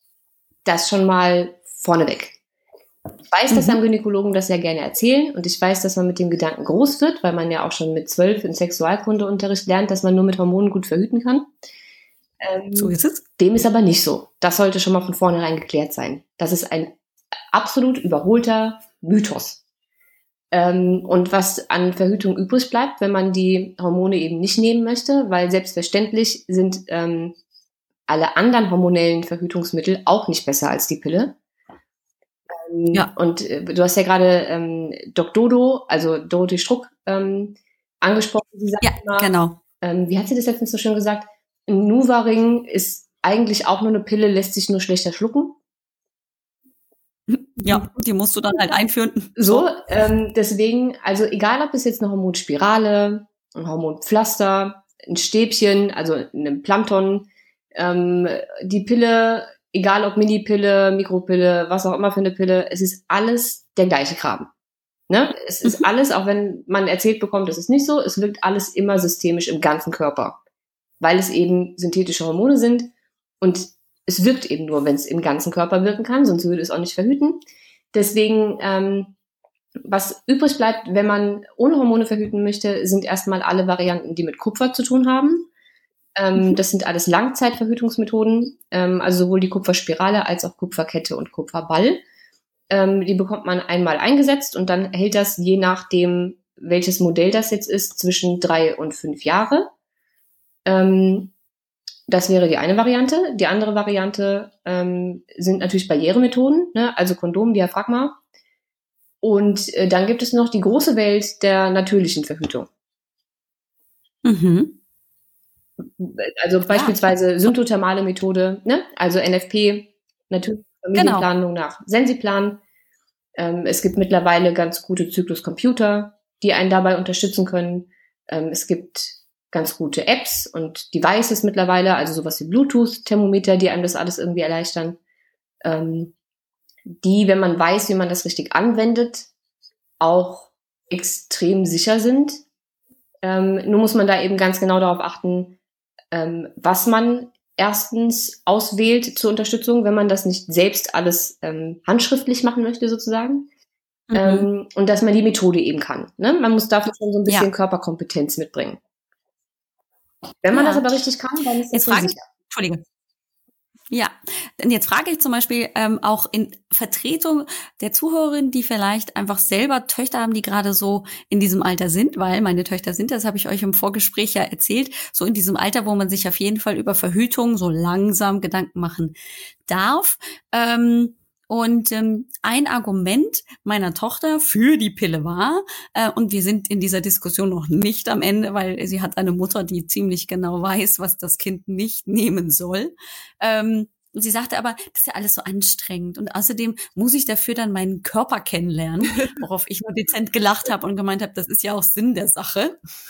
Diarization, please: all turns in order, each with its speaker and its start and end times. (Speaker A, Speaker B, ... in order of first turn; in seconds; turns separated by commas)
Speaker A: 0.6-2.4, Speaker A: 3.3-11.5, Speaker B: 3.5-3.8, Speaker A: 12.4-16.9, Speaker B: 12.8-13.2, Speaker A: 17.5-19.6, Speaker A: 20.5-27.3, Speaker A: 28.1-31.4, Speaker A: 32.5-45.6, Speaker B: 38.8-39.6, Speaker B: 47.3-49.7, Speaker A: 49.4-64.5, Speaker A: 65.1-70.4, Speaker A: 71.0-77.4, Speaker A: 77.9-79.1, Speaker A: 79.8-85.5, Speaker A: 86.2-92.0, Speaker A: 92.7-99.7, Speaker A: 100.7-101.3, Speaker A: 102.1-108.2, Speaker A: 109.2-112.7, Speaker B: 114.2-114.8, Speaker A: 116.0-122.6, Speaker B: 116.7-117.1, Speaker B: 120.9-121.3, Speaker A: 123.3-135.0, Speaker A: 135.6-136.1, Speaker A: 137.0-139.3, Speaker A: 140.0-142.4, Speaker A: 143.2-145.6, Speaker A: 146.1-153.5, Speaker B: 154.1-154.5, Speaker A: 154.1-158.8, Speaker A: 160.4-162.2, Speaker B: 160.5-160.9, Speaker B: 161.7-162.8, Speaker B: 163.9-179.1, Speaker B: 179.7-202.8